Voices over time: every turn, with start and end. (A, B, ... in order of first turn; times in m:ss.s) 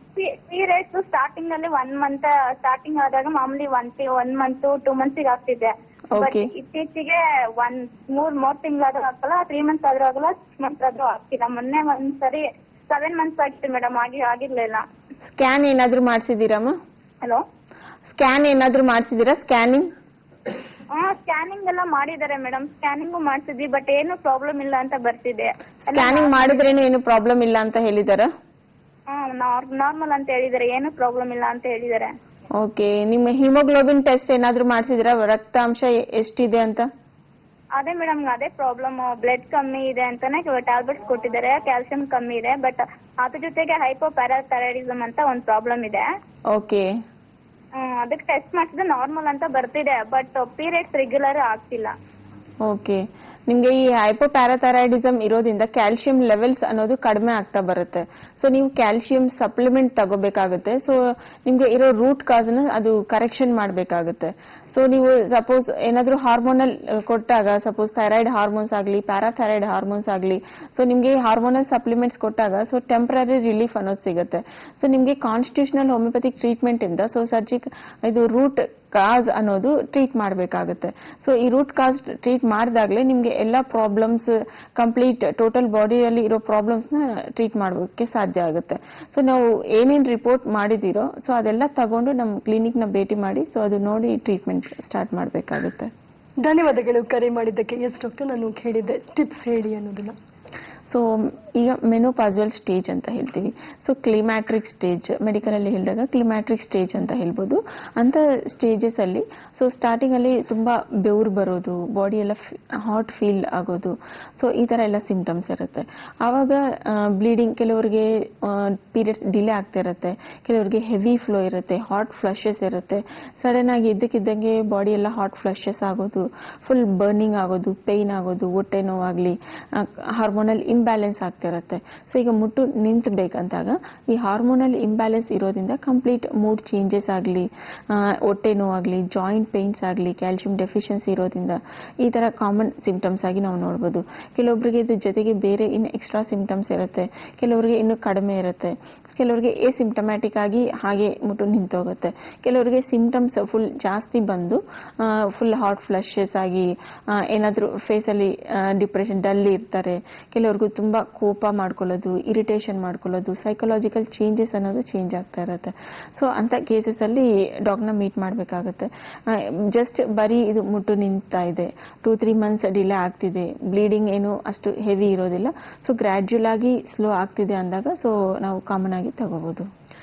0:00.2-0:14.8 A
0:06.1-0:06.5 B
0:15.2-0:16.8 B
0:18.1-0:19.9 B
0:20.9-0:26.4 A
0:25.9-0:28.3 B
0:29.1-0:32.2 A
0:32.5-0:36.9 B
0:37.7-0:46.1 A
0:46.5-0:46.9 B
0:47.7-0:51.9 A
0:52.6-1:35.9 B
1:36.4-1:40.1 C
1:40.9-2:59.7 B